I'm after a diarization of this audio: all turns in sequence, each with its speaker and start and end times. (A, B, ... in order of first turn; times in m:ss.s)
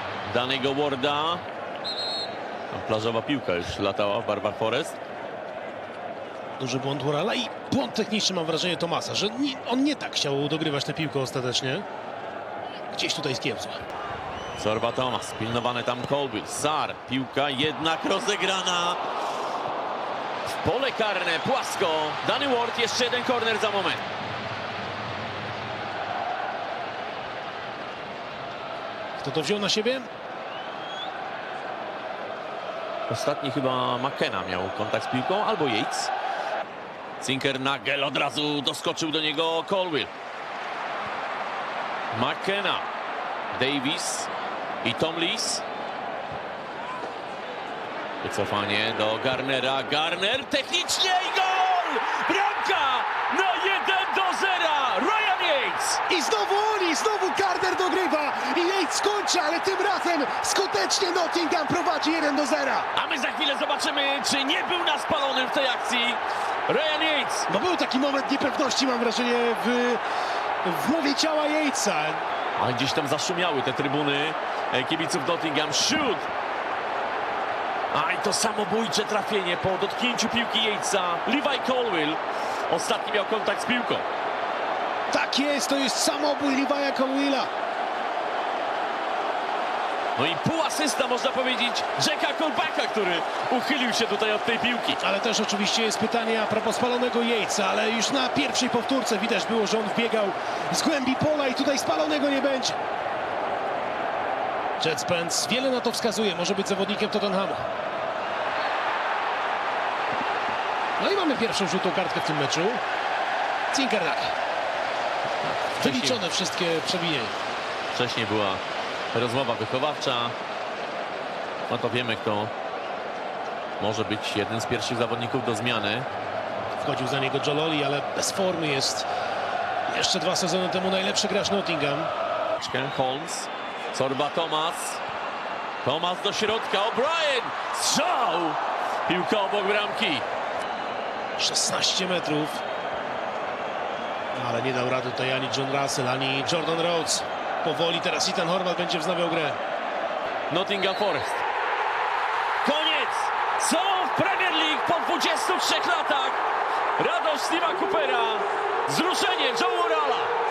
0:00.2-0:01.4 A
0:02.7-0:05.0 A
0:06.6-0:11.8 B
0:12.9-0:13.8 B
0:14.6-0:19.0 A
0:20.5-0:24.0 A
0:29.2-0:30.1 B
0:33.1-0:36.1 A
0:37.2-0:40.1 A
0:42.1-0:42.9 A
0:43.5-0:44.3 A
0:44.8-0:45.6 A
0:48.2-0:56.0 A
0:56.1-1:02.9 B
1:03.0-1:07.5 A
1:07.5-1:10.0 B
1:10.6-1:12.2 B
1:12.6-1:16.3 A
1:17.9-1:24.1 A
1:25.1-1:27.5 B
1:30.2-1:35.0 A
1:35.0-1:42.8 B
1:44.8-1:47.6 B
1:51.0-1:52.8 B
1:53.7-1:54.3 B
1:55.4-1:56.2 A
1:55.8-1:57.3 B
1:57.9-1:58.6 A
1:59.1-2:00.4 A
2:01.7-2:02.5 A
2:03.8-2:06.1 A
2:06.8-2:09.1 B
2:09.9-2:12.1 B
2:12.6-2:15.0 A
2:15.8-2:20.2 A
2:21.4-2:22.6 B
2:24.4-2:29.6 B
2:30.5-2:31.4 A
2:32.6-2:36.4 A
2:37.0-2:40.3 A